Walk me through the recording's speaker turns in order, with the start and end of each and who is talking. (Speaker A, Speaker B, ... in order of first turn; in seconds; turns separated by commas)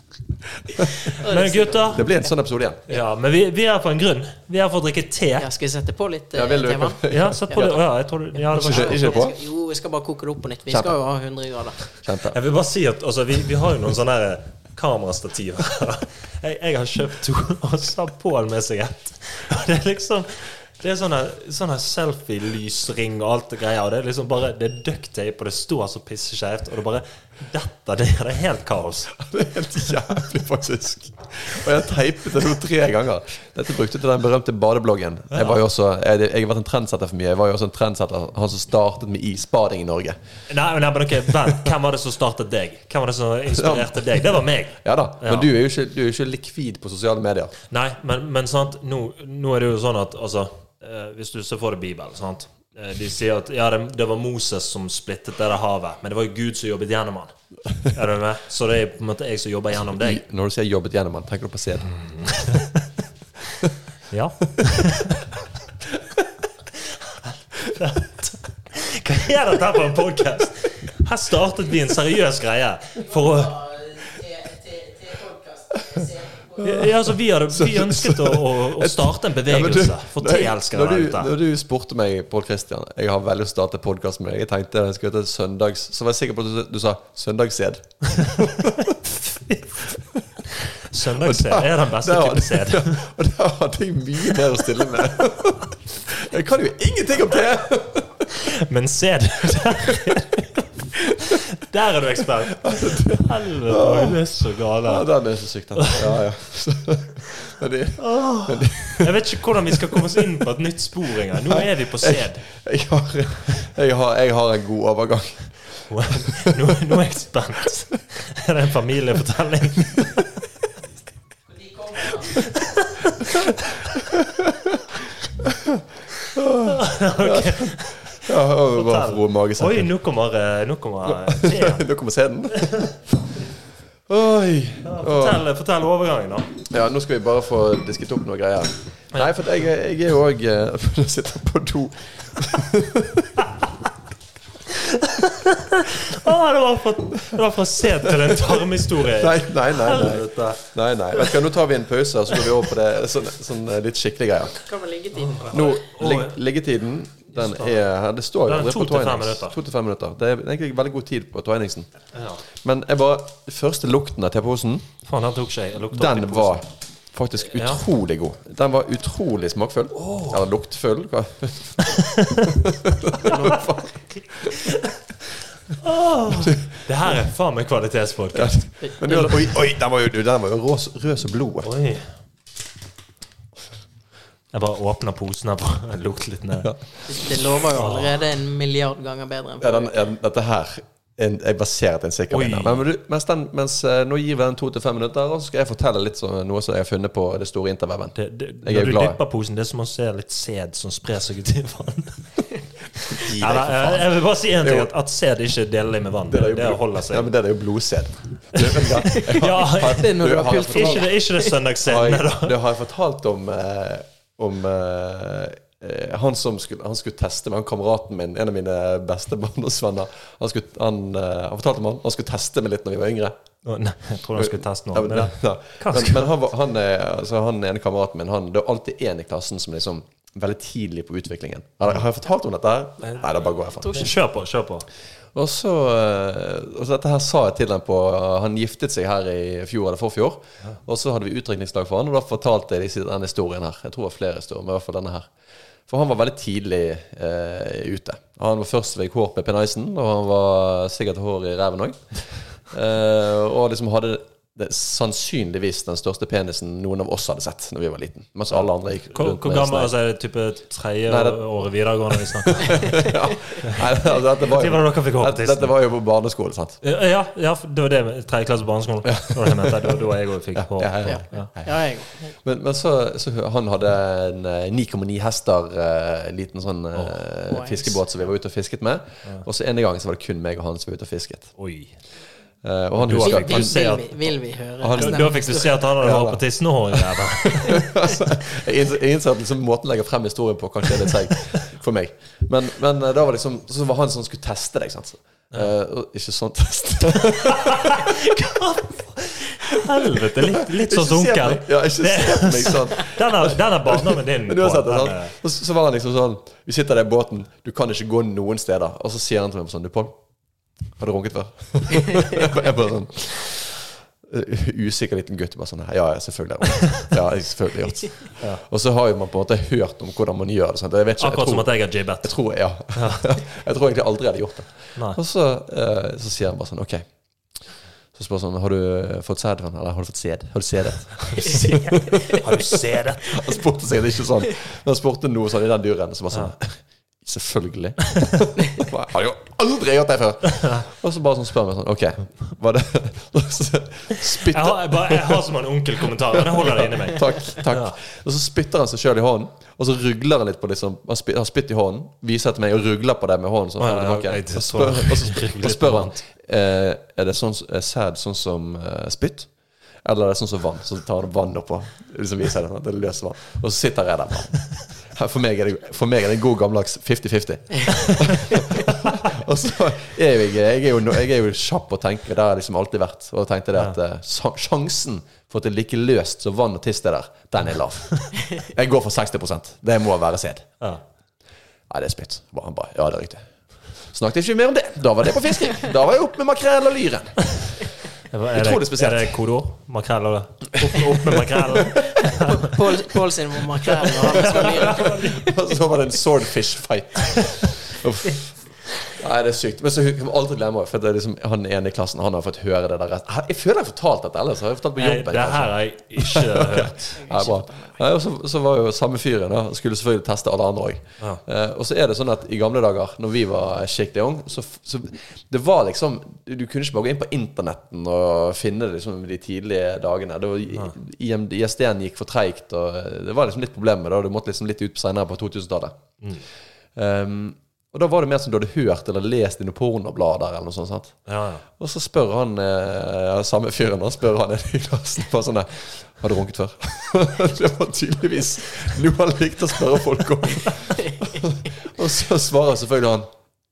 Speaker A: 0.5-0.9, Speaker B: 1.2-2.3, Speaker C: 1.2-2.1, Speaker A: 1.9-2.8, Speaker C: 2.9-5.5, Speaker B: 5.4-7.8, Speaker A: 6.3-7.8, Speaker C: 7.1-9.2, Speaker A: 8.5-9.3, Speaker B: 8.5-11.9, Speaker A: 10.7-11.0, Speaker A: 11.8-12.4, Speaker C: 12.2-29.1, Speaker A: 29.1-40.2, Speaker C: 35.3-35.6, Speaker C: 40.5-45.5, Speaker A: 43.5-47.5, Speaker C: 47.7-60.2, Speaker A: 60.0-62.0, Speaker C: 61.9-62.9, Speaker C: 64.1-65.2, Speaker C: 66.7-73.9, Speaker B: 73.7-75.7, Speaker A: 75.7-89.1, Speaker C: 76.5-81.3, Speaker C: 89.2-89.7, Speaker C: 90.8-93.0, Speaker A: 91.2-98.4, Speaker C: 98.6-100.6, Speaker A: 99.9-100.3, Speaker C: 101.6-105.1, Speaker A: 102.6-110.2, Speaker C: 108.0-112.5, Speaker A: 111.5-116.7, Speaker C: 115.9-120.3, Speaker B: 121.7-122.2, Speaker C: 122.3-123.3, Speaker A: 124.1-124.8, Speaker A: 126.3-129.9, Speaker C: 126.6-131.9, Speaker A: 131.1-133.3, Speaker A: 134.1-135.4, Speaker C: 134.8-136.5, Speaker A: 136.7-143.4, Speaker C: 144.8-150.6, Speaker A: 148.0-154.7, Speaker B: 154.6-155.7, Speaker C: 155.1-156.4, Speaker A: 155.5-164.9, Speaker C: 157.3-157.8, Speaker C: 158.4-159.6, Speaker C: 162.1-162.4, Speaker C: 165.0-166.6, Speaker A: 165.9-174.7, Speaker C: 167.4-167.8, Speaker C: 169.9-170.4, Speaker C: 173.2-175.0, Speaker C: 175.8-178.7, Speaker A: 176.4-177.2, Speaker A: 178.3-181.7, Speaker B: 178.8-179.3, Speaker C: 181.6-182.1, Speaker C: 184.5-186.7, Speaker A: 186.6-186.9, Speaker B: 187.1-190.0, Speaker C: 187.7-188.2, Speaker A: 189.6-199.2, Speaker C: 192.3-192.8, Speaker C: 198.1-202.4, Speaker A: 203.2-204.9, Speaker C: 203.2-207.3, Speaker A: 206.3-211.1, Speaker C: 208.8-212.5, Speaker B: 209.8-211.6, Speaker A: 211.8-223.3, Speaker C: 223.6-226.3, Speaker A: 224.3-234.1, Speaker C: 233.0-233.3, Speaker C: 233.9-234.9, Speaker A: 235.3-259.9, Speaker C: 258.5-263.1, Speaker A: 261.1-266.8, Speaker C: 264.4-265.7, Speaker C: 266.8-271.5, Speaker A: 269.1-270.0, Speaker A: 270.5-281.6, Speaker B: 271.0-272.3, Speaker B: 277.5-278.0, Speaker C: 281.6-282.1, Speaker A: 282.6-298.1, Speaker C: 282.9-284.4, Speaker B: 283.2-285.9, Speaker C: 284.9-287.9, Speaker C: 297.2-305.3, Speaker A: 300.0-345.4, Speaker C: 321.2-323.3, Speaker C: 331.3-333.6, Speaker C: 344.3-347.9, Speaker A: 346.3-380.8, Speaker C: 353.8-356.2, Speaker A: 381.9-387.8, Speaker C: 388.3-392.7, Speaker A: 388.5-389.4, Speaker A: 390.9-391.9, Speaker B: 391.9-395.6, Speaker C: 393.9-395.4, Speaker A: 394.5-426.1, Speaker C: 404.9-407.1, Speaker B: 407.2-408.0, Speaker A: 426.9-443.3, Speaker C: 431.2-431.6